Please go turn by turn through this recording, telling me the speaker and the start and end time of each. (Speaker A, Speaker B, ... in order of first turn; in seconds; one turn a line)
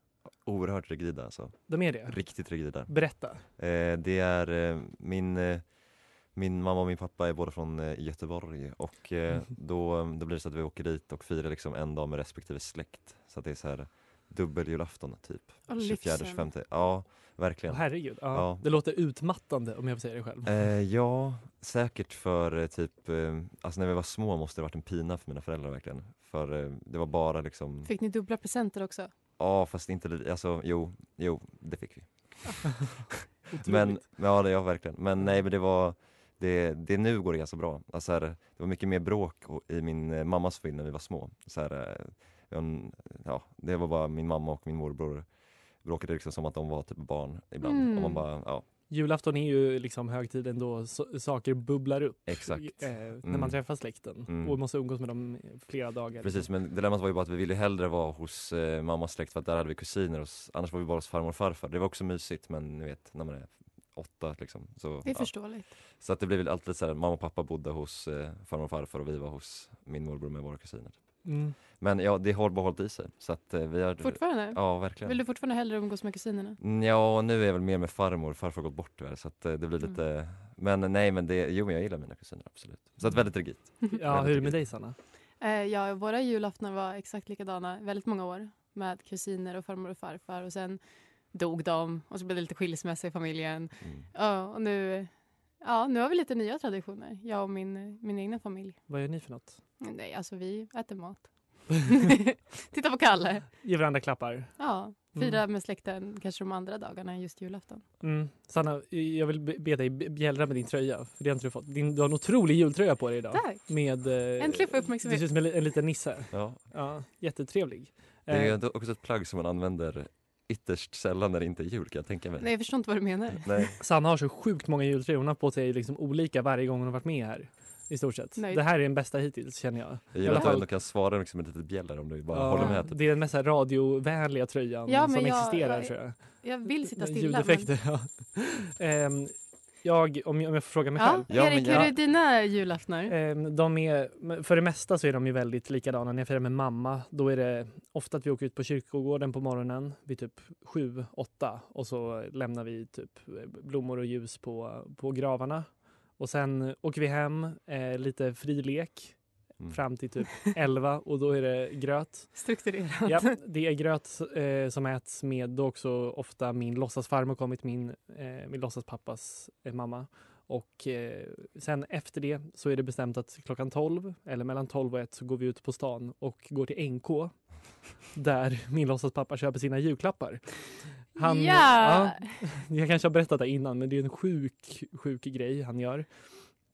Speaker A: 0.4-5.8
Speaker B: 1.7-3.4
Speaker A: 6.3-18.6
Speaker C: 15.7-16.5
Speaker B: 17.7-20.6
Speaker A: 20.4-27.9
Speaker C: 27.8-29.1
Speaker A: 29.4-48.6
Speaker B: 33.5-34.0
Speaker C: 47.6-48.2
Speaker B: 48.9-56.5
Speaker A: 52.3-54.6
Speaker A: 56.2-75.2
Speaker C: 65.0-65.7
Speaker B: 71.2-71.6
Speaker C: 74.0-76.6
Speaker A: 76.6-84.7
Speaker B: 83.9-85.0
Speaker C: 85.4-90.8
Speaker C: 91.3-98.8
Speaker B: 98.9-99.6
Speaker C: 99.8-103.5
Speaker B: 103.6-104.6
Speaker C: 104.6-107.8
Speaker B: 105.1-105.4
Speaker B: 108.0-118.6
Speaker C: 113.3-115.3
Speaker A: 116.3-116.6
Speaker A: 118.3-122.5
Speaker C: 122.4-123.7
Speaker A: 123.4-123.8
Speaker B: 123.8-130.7
Speaker C: 128.3-128.6
Speaker A: 130.1-133.3
Speaker B: 132.3-141.9
Speaker C: 134.9-137.7
Speaker C: 141.0-143.1
Speaker A: 141.3-142.0
Speaker B: 143.1-159.2
Speaker B: 159.7-162.4
Speaker C: 162.3-163.3
Speaker B: 163.1-177.4
Speaker B: 178.1-180.4
Speaker B: 181.2-186.1
Speaker C: 181.2-182.3